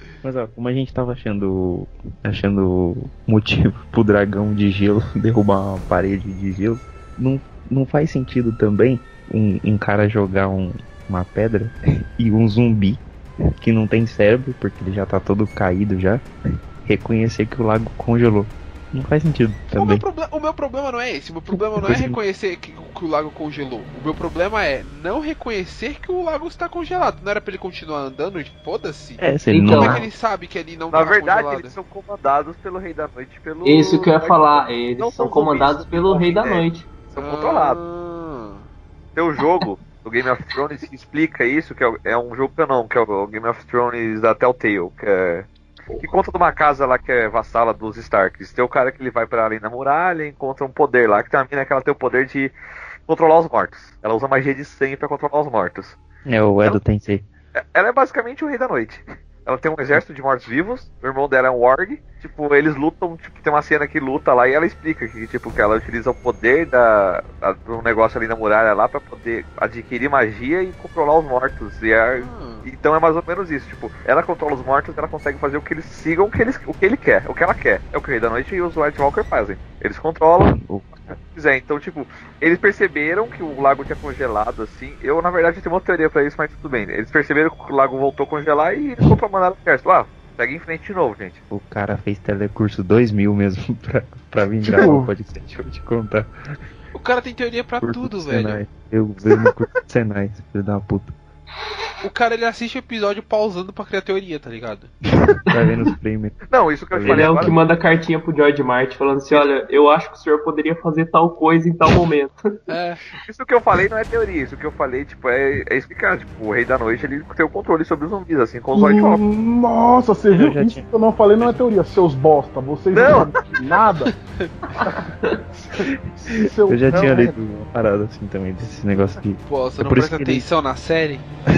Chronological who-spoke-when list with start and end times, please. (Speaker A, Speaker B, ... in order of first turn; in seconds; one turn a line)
Speaker A: 0.2-13.0
Speaker A: 13.6-16.2
Speaker A: 16.9-20.1
Speaker B: 19.8-31.7
Speaker A: 21.5-22.2
Speaker A: 29.2-30.1
Speaker C: 29.5-30.1
Speaker D: 30.9-37.8
Speaker C: 33.6-36.9
Speaker B: 37.2-38.7
Speaker D: 39.2-45.5
Speaker D: 46.0-52.5
Speaker D: 53.1-56.0
Speaker A: 56.3-57.3
Speaker D: 57.7-91.4
Speaker B: 72.1-72.7
Speaker A: 80.5-81.2
Speaker A: 91.5-96.3
Speaker E: 94.6-95.1
Speaker B: 96.9-98.6
Speaker A: 97.8-101.2
Speaker B: 102.0-104.9
Speaker A: 105.5-107.6
Speaker C: 105.5-105.7
Speaker D: 106.5-107.5
Speaker C: 107.0-112.3
Speaker B: 112.7-113.0
Speaker D: 113.3-119.2
Speaker E: 118.7-124.1
Speaker A: 120.3-120.9
Speaker D: 122.9-123.3
Speaker E: 124.8-127.3
Speaker A: 126.7-130.5
Speaker D: 126.9-127.3
Speaker B: 129.5-131.2